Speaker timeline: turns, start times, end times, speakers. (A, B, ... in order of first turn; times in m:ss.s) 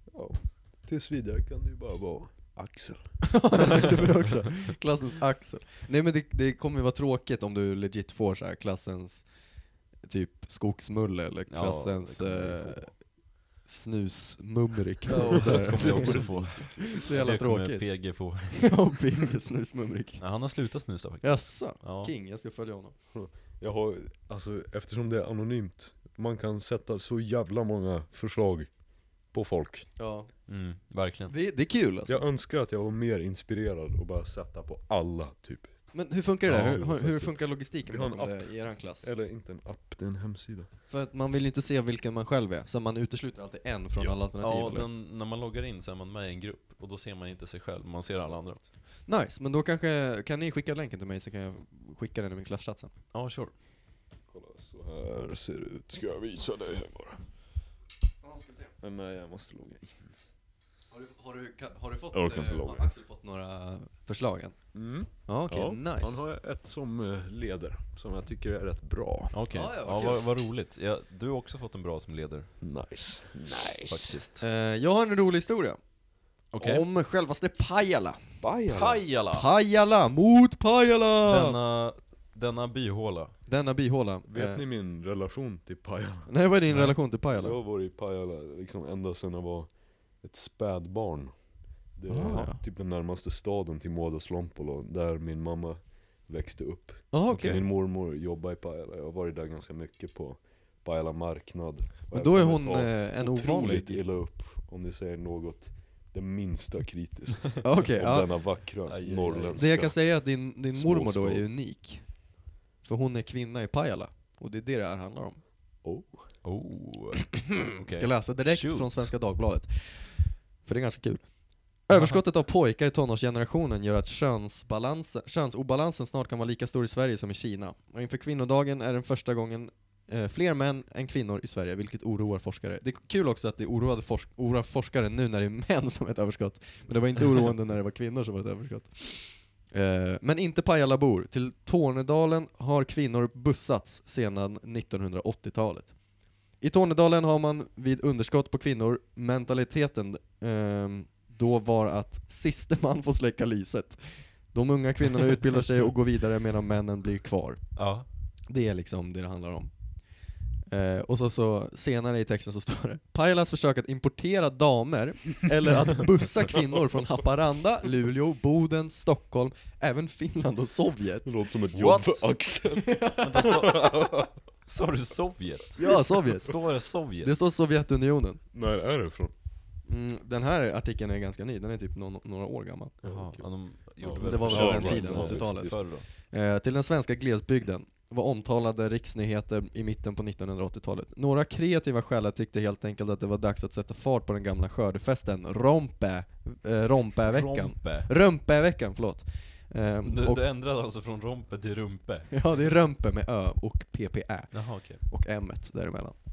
0:00.1-0:03.9 A
0:03.2-0:09.3 B
0:10.0-0:13.0 B
0:11.5-0:12.9 C
0:13.6-0:20.2 B
0:15.1-0:17.0 A
0:15.1-0:18.8 C
0:20.2-0:22.1 C
0:21.2-0:22.9 B
0:23.1-0:28.7 A
0:29.3-0:29.9 A
0:30.0-0:30.3 B
0:30.5-0:31.3 C
0:31.3-0:32.2 B
0:32.1-0:35.8 A
0:35.9-0:39.1 B
0:36.4-0:40.7 A
0:40.9-0:44.9 B
0:44.4-0:48.6 C
0:48.1-0:48.7 A
0:49.0-0:52.9 B
0:53.1-0:53.5 C
0:54.3-0:57.2 A
0:58.2-0:58.7 B
0:58.8-1:00.0 A
1:00.9-1:04.6 B
1:02.1-1:02.9 A
1:04.7-1:09.3 A
1:05.2-1:06.2 B
1:09.3-1:12.5 C
1:09.5-1:10.2 B
1:12.6-1:14.2 A
1:13.9-1:14.4 C
1:14.4-1:15.8 B
1:16.5-1:16.8 C
1:16.6-1:18.2 B
1:18.4-1:19.0 A
1:18.7-1:19.5 C
1:19.3-1:20.9 B
1:20.8-1:21.6 A
1:21.2-1:23.3 C
1:23.5-1:24.6 B
1:24.3-1:26.3 A
1:26.3-1:27.6 B
1:26.7-1:27.0 C
1:27.3-1:31.3 A
1:32.0-1:50.2 A
1:32.1-1:32.6 B
1:32.2-1:32.5 C
1:37.1-1:37.6 B
1:37.3-1:37.6 C
1:42.1-1:44.0 B
1:47.6-1:48.7 B
1:48.9-1:49.6 C
1:49.5-1:52.2 B
1:50.7-1:51.4 A
1:52.8-1:55.4 B
1:55.8-1:56.3 A
1:56.4-1:59.1 C
1:57.3-2:26.0 B
2:01.9-2:02.2 C
2:26.6-2:37.6 B
2:37.8-2:38.0 C
2:38.5-2:39.7 B
2:40.7-2:51.4 B
2:51.2-2:54.3 A
2:51.7-2:52.3 C
2:52.8-2:53.8 B
2:53.2-2:53.9 C
2:54.6-2:57.3 C
2:55.8-2:58.4 B
2:58.5-2:59.3 A
2:59.9-3:02.9 B
3:03.0-3:05.8 A
3:03.0-3:06.0 C
3:04.2-3:20.4 B
3:17.2-3:18.1 C
3:20.0-3:22.3 C
3:22.3-3:26.2 B
3:24.5-3:25.0 C